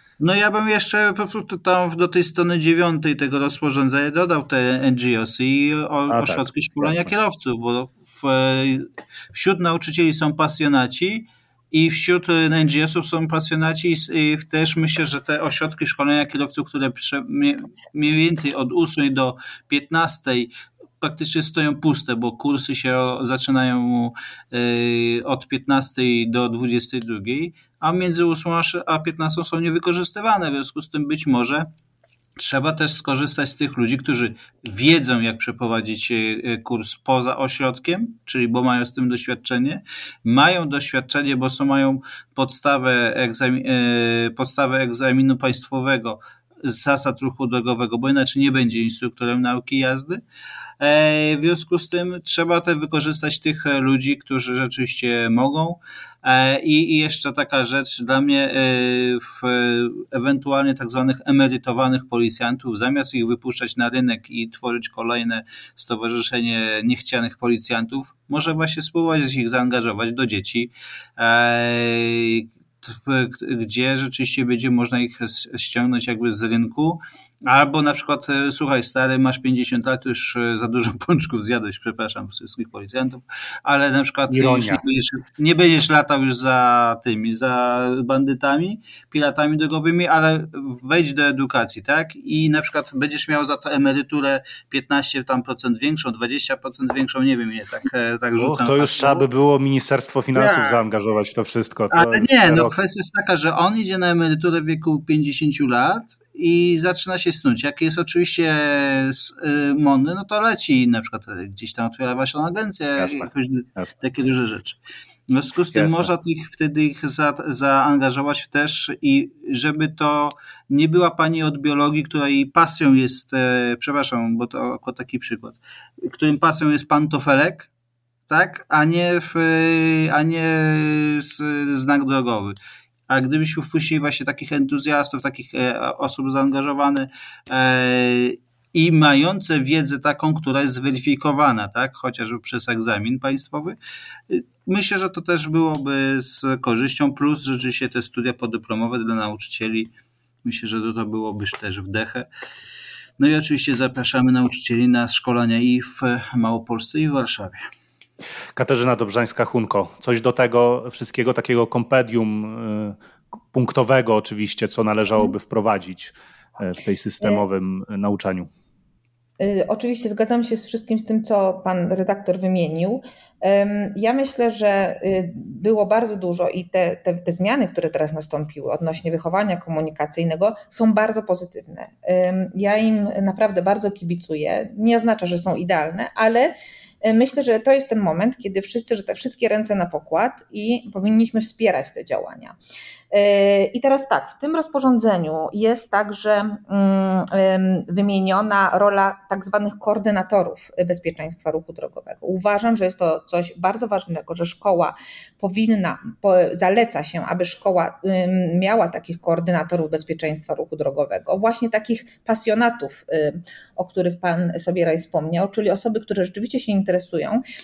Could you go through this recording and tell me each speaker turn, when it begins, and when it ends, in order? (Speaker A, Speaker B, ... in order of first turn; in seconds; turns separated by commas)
Speaker A: 0.2-31.7, Speaker B: 6.1-7.1, Speaker A: 32.4-50.2, Speaker A: 50.8-99.2, Speaker B: 84.3-84.8, Speaker B: 98.4-102.7, Speaker A: 100.3-100.8, Speaker A: 101.9-114.8, Speaker B: 113.0-113.9, Speaker A: 115.3-127.7, Speaker B: 115.7-116.1, Speaker A: 128.3-132.6, Speaker A: 133.1-143.8, Speaker A: 144.3-149.9, Speaker A: 150.4-152.3, Speaker A: 153.2-157.6, Speaker B: 158.6-162.9, Speaker B: 163.5-168.5, Speaker C: 169.4-192.6, Speaker C: 193.1-217.4